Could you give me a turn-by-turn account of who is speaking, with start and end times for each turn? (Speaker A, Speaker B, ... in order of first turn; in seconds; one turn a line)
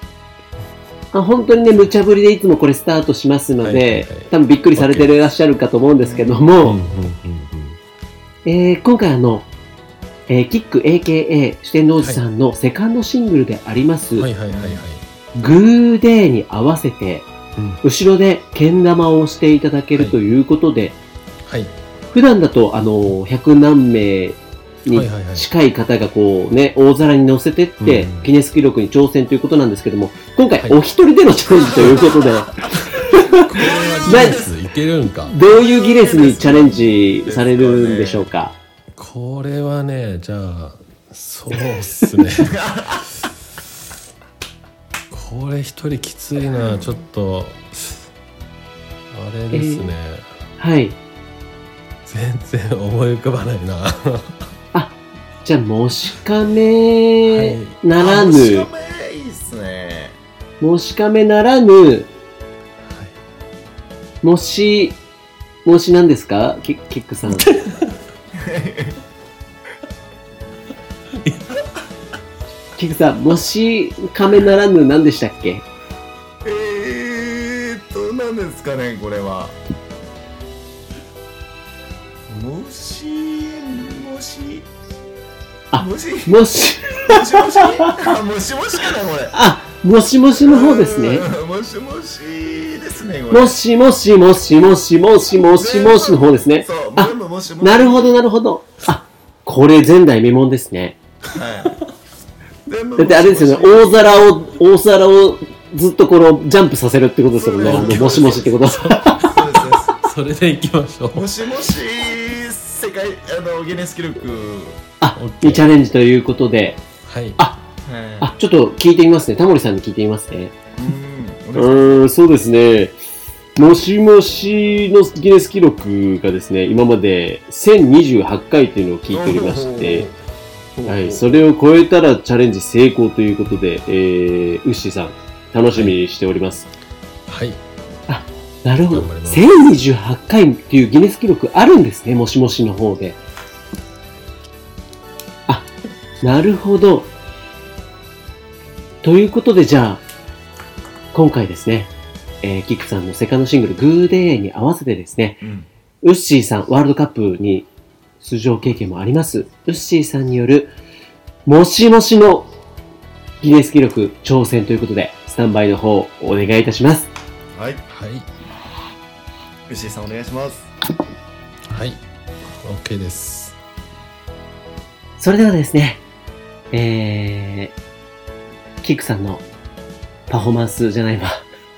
Speaker A: 1.1-6.8
Speaker B: 3.6-5.3
Speaker C: 6.0-6.5
Speaker B: 6.6-7.8
Speaker A: 8.4-9.5
Speaker A: 10.3-14.3
Speaker B: 14.2-15.0
Speaker C: 14.5-14.8
Speaker A: 15.3-17.3
Speaker B: 17.6-17.8
Speaker A: 17.8-21.0
Speaker B: 21.4-21.7
Speaker A: 22.1-33.5
Speaker B: 24.9-25.5
Speaker B: 27.8-28.3
Speaker C: 33.3-34.6
Speaker B: 33.5-35.4
Speaker A: 34.1-34.4
Speaker A: 35.3-38.6
Speaker C: 35.5-38.3
Speaker B: 39.0-42.5
Speaker C: 42.3-43.1
Speaker B: 45.1-48.1
Speaker C: 46.5-46.9
Speaker B: 49.1-50.3
Speaker A: 49.5-49.9
Speaker A: 50.6-51.0
Speaker B: 52.1-54.5
Speaker A: 54.7-58.7
Speaker B: 57.2-57.8
Speaker C: 58.0-60.2
Speaker A: 60.6-62.1
Speaker B: 62.8-63.1
Speaker A: 64.2-65.0
Speaker A: 65.7-67.5
Speaker B: 67.3-68.0
Speaker C: 68.3-69.0
Speaker B: 71.2-71.5
Speaker A: 72.8-75.7
Speaker C: 76.4-79.6
Speaker C: 82.3-84.7
Speaker A: 85.7-88.0
Speaker C: 85.8-86.4
Speaker C: 86.9-89.3
Speaker A: 89.3-91.3
Speaker C: 90.4-93.6
Speaker A: 93.3-101.0
Speaker C: 95.5-98.2
Speaker C: 101.3-101.8
Speaker C: 102.7-104.5
Speaker A: 103.0-109.3
Speaker C: 107.3-108.5
Speaker B: 107.7-111.3
Speaker C: 109.1-110.0
Speaker C: 111.1-114.8
Speaker A: 115.0-116.8
Speaker B: 115.2-115.7
Speaker B: 117.0-117.4
Speaker A: 117.4-117.6
Speaker C: 117.8-118.3
Speaker A: 118.2-120.6
Speaker C: 120.8-122.1
Speaker A: 121.5-123.0
Speaker A: 123.6-130.1
Speaker C: 129.1-130.1
Speaker C: 130.8-131.4
Speaker A: 130.9-136.7
Speaker B: 137.3-137.6
Speaker A: 138.1-143.2
Speaker B: 138.9-139.5
Speaker A: 146.2-147.1
Speaker A: 149.0-150.0
Speaker A: 151.1-155.4
Speaker C: 155.4-155.7
Speaker A: 156.0-157.7
Speaker A: 158.2-160.7
Speaker A: 161.5-162.5
Speaker A: 163.4-167.1
Speaker C: 167.6-167.8
Speaker B: 167.9-168.3
Speaker C: 169.7-170.7
Speaker B: 171.7-173.6
Speaker A: 175.2-176.0
Speaker A: 176.7-177.7
Speaker A: 178.8-179.4
Speaker A: 180.3-181.4